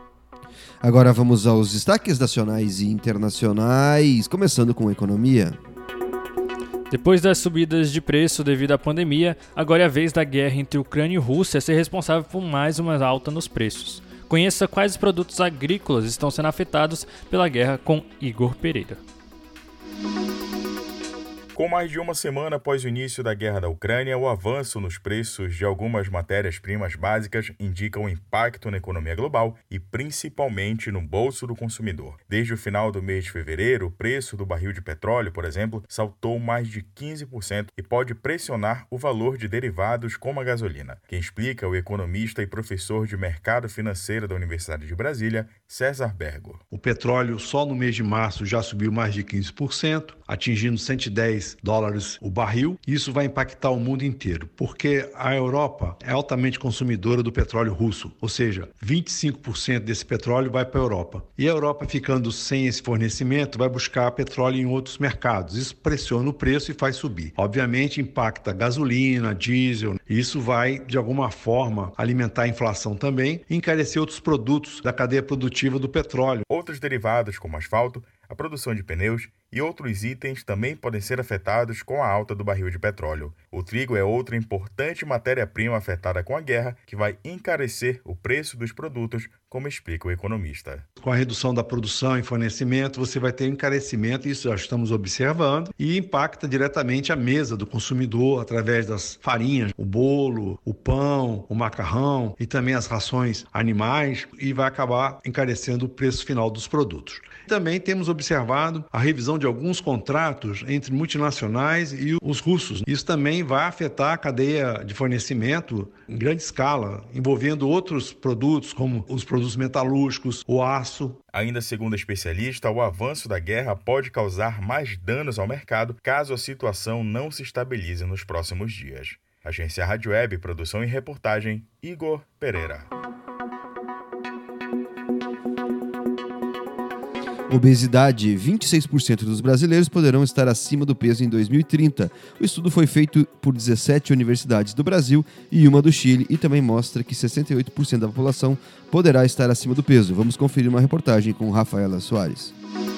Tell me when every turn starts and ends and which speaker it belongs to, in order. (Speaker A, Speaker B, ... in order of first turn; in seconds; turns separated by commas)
Speaker A: 0.8-5.6, Speaker B: 6.9-19.0, Speaker C: 21.5-46.6, Speaker D: 46.7-76.5, Speaker C: 76.5-90.8, Speaker D: 91.0-121.2, Speaker C: 121.3-132.9, Speaker A: 137.5-152.5